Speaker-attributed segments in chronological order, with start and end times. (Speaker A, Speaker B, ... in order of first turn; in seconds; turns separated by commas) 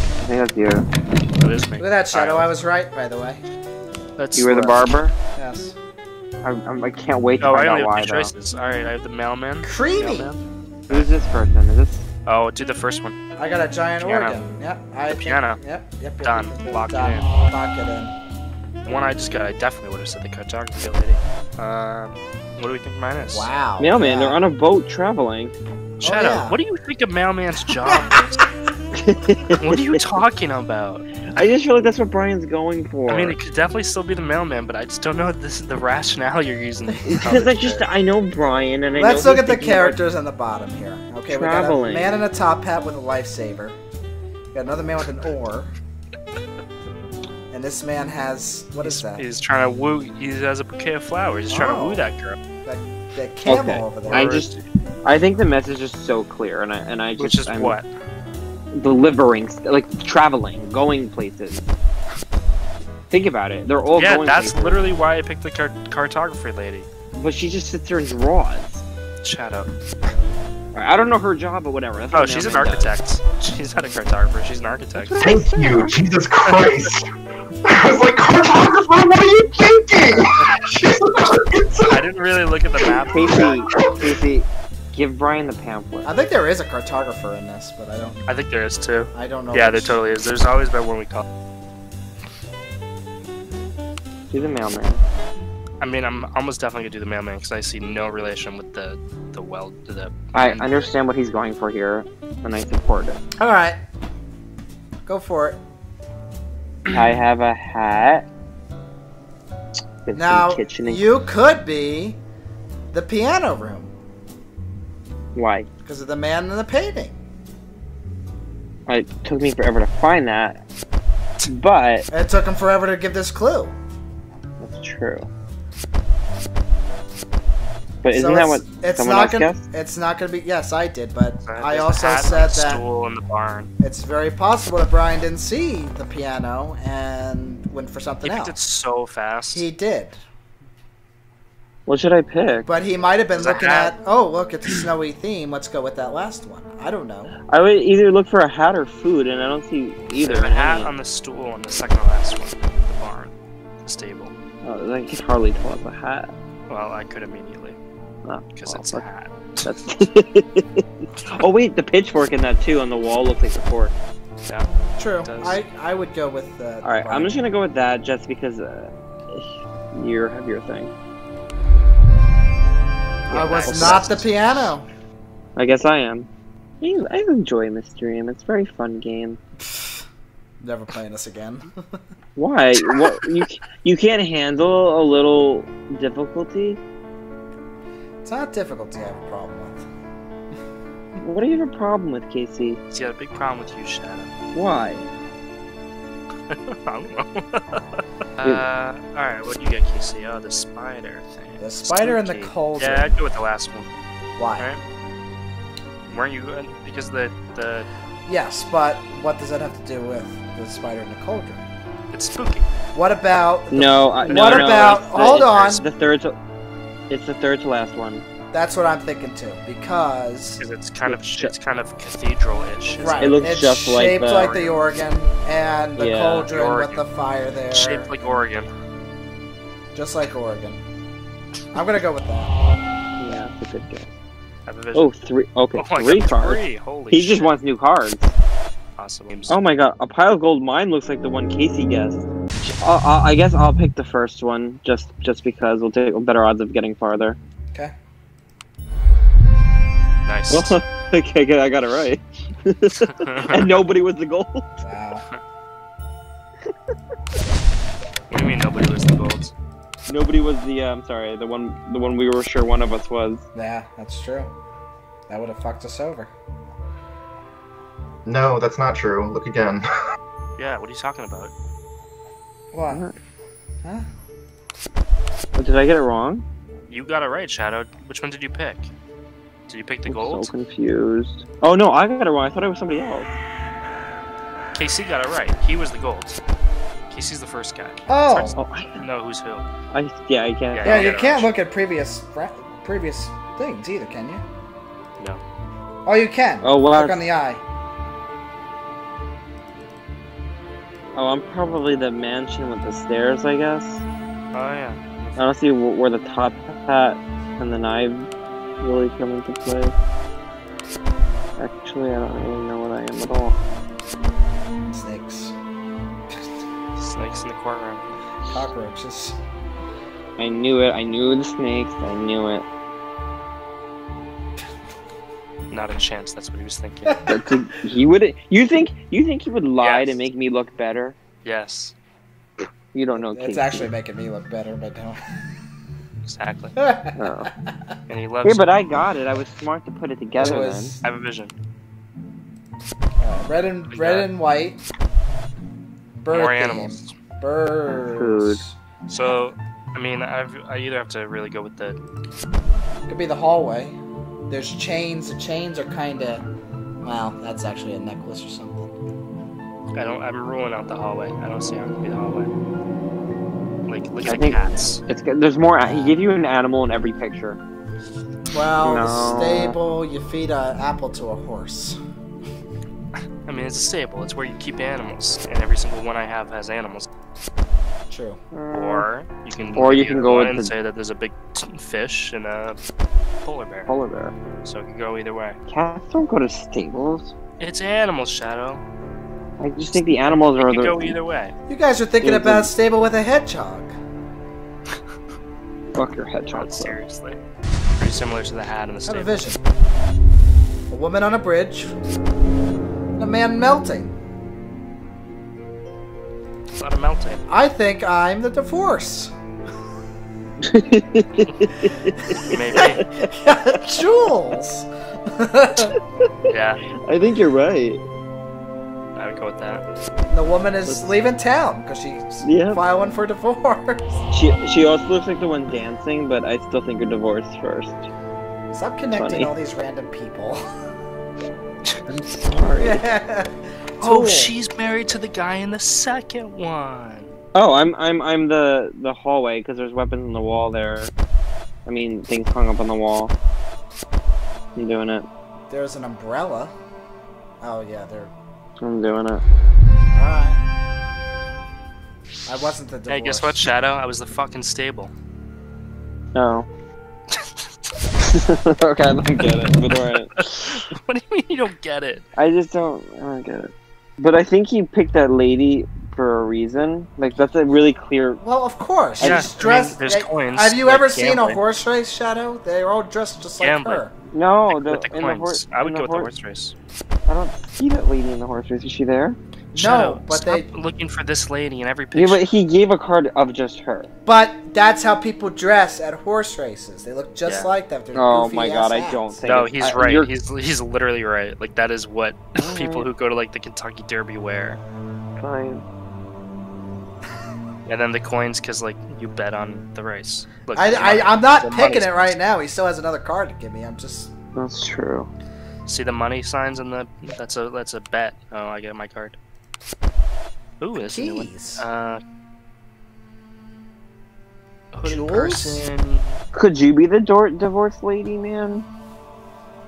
Speaker A: 0.2-0.9, Speaker B: 1.4-2.5, Speaker C: 1.8-3.4, Speaker B: 4.2-4.9, Speaker A: 4.3-5.2, Speaker C: 5.4-5.8, Speaker A: 6.4-8.3, Speaker B: 7.4-11.1, Speaker C: 9.6-10.3, Speaker A: 10.9-12.1, Speaker B: 12.3-13.2, Speaker C: 13.4-18.1, Speaker B: 14.0-14.4, Speaker B: 15.1-15.6, Speaker B: 16.2-17.2, Speaker B: 18.9-23.5, Speaker C: 23.2-24.4, Speaker A: 23.8-25.6, Speaker B: 26.0-28.4, Speaker C: 26.0-26.6, Speaker A: 28.9-30.0, Speaker B: 29.6-31.5, Speaker A: 31.3-33.4, Speaker B: 33.1-37.9, Speaker A: 37.1-40.0, Speaker C: 39.0-43.8, Speaker A: 41.3-42.2, Speaker C: 44.5-45.7, Speaker C: 47.5-49.3, Speaker B: 48.8-52.4, Speaker C: 51.5-52.1, Speaker C: 52.6-54.3, Speaker A: 53.5-57.8, Speaker B: 54.0-54.6, Speaker B: 57.2-57.9, Speaker A: 58.7-61.6, Speaker A: 63.1-64.9, Speaker B: 64.0-66.9, Speaker A: 67.2-68.8, Speaker B: 69.2-69.7, Speaker A: 70.7-72.9, Speaker B: 72.1-75.2, Speaker A: 74.9-75.9, Speaker D: 75.2-77.1, Speaker B: 76.5-76.8, Speaker D: 77.7-82.0, Speaker B: 81.9-83.4, Speaker D: 82.8-84.1, Speaker A: 83.1-86.1, Speaker C: 86.0-88.3, Speaker B: 88.3-91.2, Speaker C: 89.1-90.0, Speaker A: 94.3-95.0, Speaker B: 95.8-100.7, Speaker A: 100.3-103.2, Speaker C: 103.4-103.8, Speaker C: 105.0-105.6, Speaker B: 106.9-107.2, Speaker A: 106.9-108.3, Speaker A: 110.0-111.0, Speaker C: 110.1-112.2, Speaker C: 112.9-113.9, Speaker A: 115.3-115.7, Speaker C: 115.8-117.2, Speaker A: 118.9-120.6, Speaker A: 121.4-122.1, Speaker C: 122.1-123.8, Speaker A: 124.6-125.3, Speaker A: 128.0-129.6, Speaker C: 128.1-132.8, Speaker B: 131.4-133.7, Speaker C: 133.8-138.6, Speaker B: 138.2-139.7, Speaker C: 139.5-140.2, Speaker A: 141.9-142.7, Speaker C: 142.7-147.4, Speaker B: 143.3-144.0, Speaker A: 147.5-150.9, Speaker B: 150.2-154.3, Speaker A: 154.6-156.3, Speaker B: 156.7-157.8, Speaker A: 158.2-159.1, Speaker B: 158.5-159.7, Speaker A: 159.6-163.9, Speaker C: 165.0-167.4, Speaker B: 165.2-165.6, Speaker A: 166.8-170.9, Speaker C: 173.3-174.9, Speaker B: 173.3-174.2, Speaker A: 173.3-174.3, Speaker A: 175.6-176.3, Speaker A: 176.8-179.4, Speaker C: 180.6-181.8, Speaker A: 182.4-186.8, Speaker C: 188.2-189.9, Speaker A: 191.2-192.8, Speaker B: 192.9-194.3, Speaker A: 194.5-195.1, Speaker B: 196.5-203.9, Speaker C: 201.6-203.2, Speaker C: 204.4-204.7, Speaker B: 206.1-207.9, Speaker C: 208.3-211.7, Speaker B: 212.1-212.7, Speaker C: 212.9-215.8, Speaker A: 213.7-216.4, Speaker B: 214.3-215.8, Speaker A: 217.1-218.2, Speaker C: 218.5-220.6, Speaker B: 220.6-223.4, Speaker A: 221.1-221.6, Speaker C: 222.9-228.1, Speaker A: 223.2-224.7, Speaker A: 226.0-226.5, Speaker B: 226.5-227.1, Speaker B: 227.7-228.7, Speaker C: 229.9-230.8, Speaker C: 231.7-232.5, Speaker A: 233.2-234.1, Speaker B: 234.7-235.1, Speaker A: 234.9-238.3, Speaker B: 235.8-237.6, Speaker B: 239.0-239.6, Speaker A: 239.5-247.4, Speaker B: 250.3-250.8, Speaker A: 250.5-254.7, Speaker B: 253.2-253.8, Speaker C: 254.8-255.2, Speaker B: 258.3-259.5, Speaker A: 260.1-263.4, Speaker C: 263.6-264.5, Speaker C: 265.3-266.3, Speaker D: 268.3-269.9, Speaker B: 270.6-271.5, Speaker C: 272.7-273.1, Speaker A: 272.9-273.2, Speaker A: 275.6-276.4, Speaker B: 276.9-278.9, Speaker B: 279.7-280.5, Speaker A: 280.1-283.4, Speaker B: 284.8-286.4, Speaker B: 287.1-289.7, Speaker C: 288.1-288.6, Speaker A: 288.6-289.1, Speaker A: 289.9-291.1, Speaker B: 290.7-291.5, Speaker C: 290.8-294.4, Speaker C: 296.1-297.6, Speaker A: 296.6-297.2, Speaker A: 301.1-304.0, Speaker B: 304.5-305.0, Speaker A: 305.4-308.3, Speaker A: 308.8-309.9, Speaker A: 311.6-313.6, Speaker C: 314.9-315.6, Speaker B: 317.0-318.1, Speaker C: 318.5-319.4, Speaker A: 320.4-322.7, Speaker B: 325.7-327.2, Speaker C: 327.1-327.5, Speaker A: 327.3-331.2, Speaker B: 329.8-330.3, Speaker B: 331.4-331.9, Speaker A: 332.9-333.9, Speaker C: 333.1-335.2, Speaker B: 336.2-336.8, Speaker C: 336.8-337.9, Speaker A: 337.2-337.5, Speaker B: 338.1-338.7, Speaker A: 338.4-340.9, Speaker C: 340.4-341.0, Speaker B: 341.0-341.6, Speaker C: 343.2-344.8, Speaker B: 343.9-344.3, Speaker C: 346.1-349.4, Speaker B: 346.3-347.1, Speaker A: 347.9-348.6, Speaker B: 349.1-352.0, Speaker C: 353.1-354.0, Speaker C: 354.5-356.5, Speaker C: 357.0-358.9, Speaker B: 359.9-362.5, Speaker B: 363.9-365.0, Speaker A: 364.3-367.6, Speaker C: 365.8-366.2, Speaker C: 368.5-372.0, Speaker A: 368.8-369.8, Speaker B: 373.4-377.1, Speaker C: 378.1-378.4, Speaker A: 378.5-379.1, Speaker B: 378.7-382.8, Speaker A: 379.7-380.7, Speaker B: 383.4-383.9, Speaker A: 383.9-384.4, Speaker B: 384.6-385.6, Speaker A: 385.7-387.3, Speaker B: 387.6-388.8, Speaker A: 389.6-391.1, Speaker B: 389.9-391.5, Speaker C: 391.7-393.9, Speaker A: 392.2-392.7, Speaker A: 395.9-397.0, Speaker B: 396.5-397.4, Speaker B: 398.0-399.4, Speaker C: 399.1-399.6, Speaker C: 400.9-401.9, Speaker C: 403.2-404.1, Speaker B: 406.7-407.4, Speaker C: 407.5-409.3, Speaker A: 410.6-413.8, Speaker C: 412.3-415.9, Speaker B: 412.4-413.1, Speaker A: 415.9-416.2, Speaker B: 416.5-416.8, Speaker A: 417.0-418.0, Speaker B: 419.2-419.9, Speaker C: 420.3-424.2, Speaker A: 420.9-421.2, Speaker A: 422.4-422.8, Speaker A: 424.3-428.1, Speaker C: 428.7-430.6, Speaker A: 429.1-429.5, Speaker A: 432.1-433.0, Speaker C: 432.8-434.5, Speaker B: 434.0-437.3, Speaker A: 437.6-441.1, Speaker A: 441.9-443.3, Speaker A: 444.8-445.3, Speaker C: 445.7-446.7, Speaker C: 447.6-448.3, Speaker A: 448.8-449.4, Speaker C: 450.1-450.6, Speaker C: 452.5-453.7, Speaker B: 453.1-455.1, Speaker A: 456.3-456.7, Speaker B: 457.3-457.6, Speaker A: 458.2-460.8, Speaker B: 460.3-462.2, Speaker A: 462.4-468.4, Speaker C: 468.4-474.1, Speaker A: 469.2-469.5, Speaker B: 469.2-471.6, Speaker B: 473.6-474.1, Speaker A: 474.3-476.3, Speaker B: 474.7-476.8, Speaker A: 477.3-479.4, Speaker B: 479.7-482.5, Speaker C: 479.8-480.7, Speaker A: 482.1-484.1, Speaker C: 484.2-489.4, Speaker B: 487.4-487.7, Speaker A: 488.1-490.3, Speaker B: 489.4-494.8, Speaker A: 492.6-493.1, Speaker A: 495.4-495.8, Speaker B: 497.9-502.3, Speaker C: 500.7-504.3, Speaker A: 504.6-505.3, Speaker B: 505.9-509.4, Speaker B: 510.8-512.2, Speaker C: 511.0-511.9, Speaker B: 514.9-516.4, Speaker C: 515.0-515.9, Speaker A: 516.5-518.9